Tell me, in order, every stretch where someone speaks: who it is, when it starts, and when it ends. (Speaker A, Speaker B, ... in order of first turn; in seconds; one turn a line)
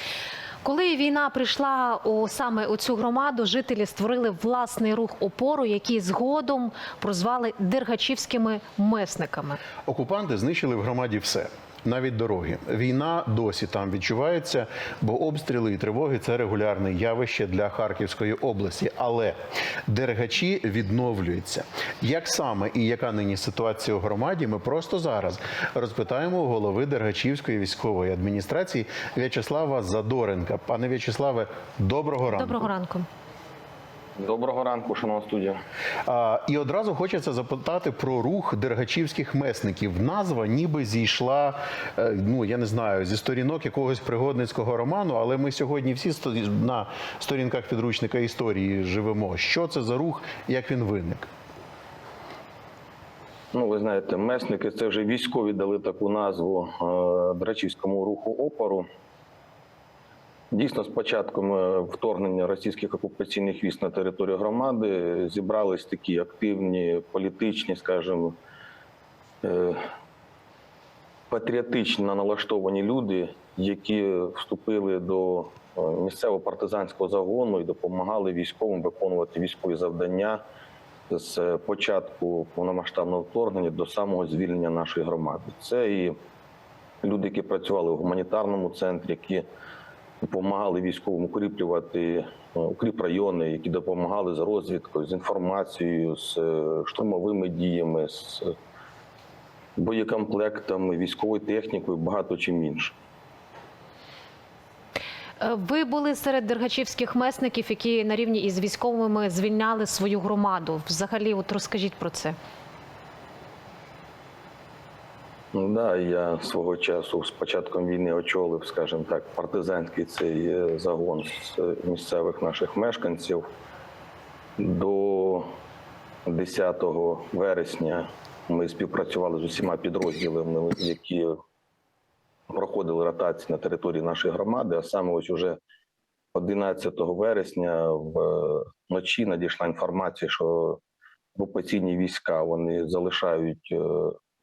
Speaker A: 0.6-9.6
Speaker B: 9.8-32.7
Speaker A: 32.3-33.1
Speaker C: 34.2-35.6
Speaker B: 36.0-51.3
Speaker C: 53.5-58.8
Speaker C: 60.5-68.3
Speaker C: 69.4-69.8
Speaker C: 71.3-80.4
Speaker C: 81.1-86.1
Speaker C: 87.0-89.4
Speaker C: 90.2-98.5
Speaker C: 99.8-102.9
Speaker A: 105.4-112.3
Speaker C: 115.5-123.4
Speaker C: 124.6-125.5
Speaker C: 126.2-131.3
Speaker C: 132.5-135.6
Speaker C: 136.3-140.8
Speaker C: 141.3-144.2